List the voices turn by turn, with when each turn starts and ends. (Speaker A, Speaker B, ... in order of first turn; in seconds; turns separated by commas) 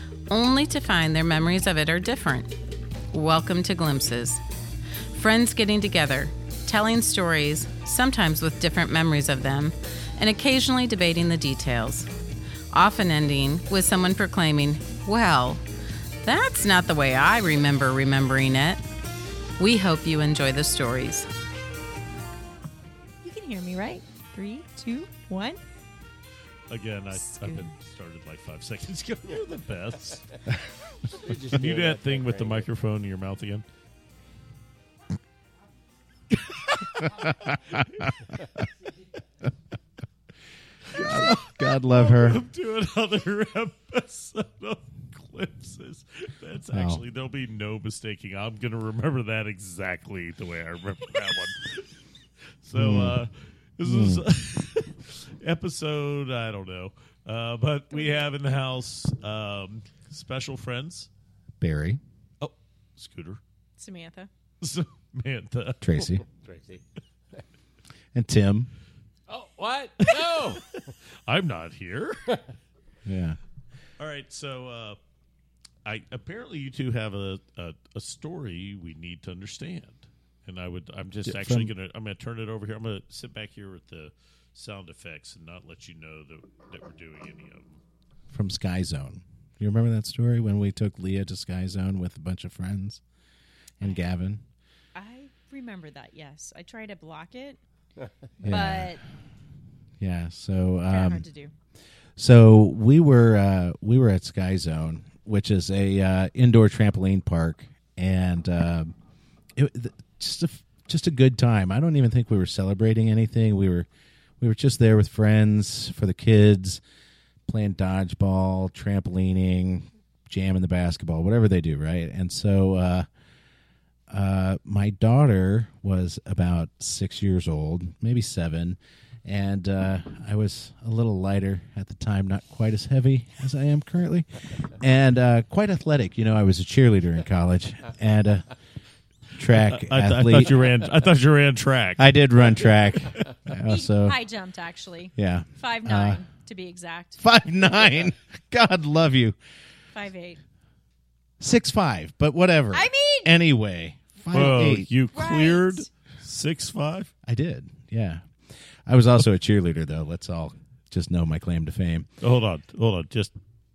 Speaker A: 0.3-2.5, Speaker A: 3.1-4.4, Speaker A: 5.1-12.1, Speaker A: 12.7-15.6, Speaker A: 16.2-18.8, Speaker A: 19.6-21.3, Speaker B: 23.2-25.6, Speaker C: 26.7-30.4, Speaker B: 27.1-27.7, Speaker D: 31.1-32.7, Speaker C: 31.4-33.7, Speaker E: 37.1-38.1, Speaker E: 40.9-42.4, Speaker C: 40.9-51.9, Speaker E: 46.7-47.0, Speaker C: 52.6-61.1, Speaker E: 52.7-53.2, Speaker E: 53.8-54.2, Speaker B: 57.9-58.3, Speaker E: 61.6-62.0, Speaker C: 62.4-63.4, Speaker B: 63.8-64.3, Speaker C: 64.6-65.8, Speaker E: 65.8-66.2, Speaker D: 66.0-66.8, Speaker E: 68.1-68.7, Speaker D: 69.3-70.6, Speaker C: 70.0-70.6, Speaker C: 71.2-72.4, Speaker E: 73.0-73.4, Speaker C: 74.0-75.0, Speaker C: 75.8-87.8, Speaker E: 81.3-81.7, Speaker E: 88.3-93.0, Speaker E: 93.8-94.4, Speaker B: 95.0-97.6, Speaker B: 98.4-99.0, Speaker E: 98.4-99.0, Speaker E: 100.0-101.2, Speaker B: 100.9-101.5, Speaker E: 102.2-108.9, Speaker E: 109.6-113.9, Speaker E: 114.4-116.8, Speaker E: 117.5-123.1, Speaker E: 124.1-134.3, Speaker E: 134.8-138.5, Speaker E: 139.4-140.6, Speaker C: 139.5-142.1, Speaker E: 142.0-144.2, Speaker C: 142.7-143.2, Speaker B: 143.7-147.2, Speaker E: 145.2-146.2, Speaker E: 147.2-149.4, Speaker B: 149.9-150.4, Speaker E: 151.4-154.9, Speaker B: 152.7-153.3, Speaker C: 154.3-157.1, Speaker B: 155.1-155.9, Speaker E: 157.3-158.2, Speaker E: 158.9-162.1, Speaker C: 162.2-163.3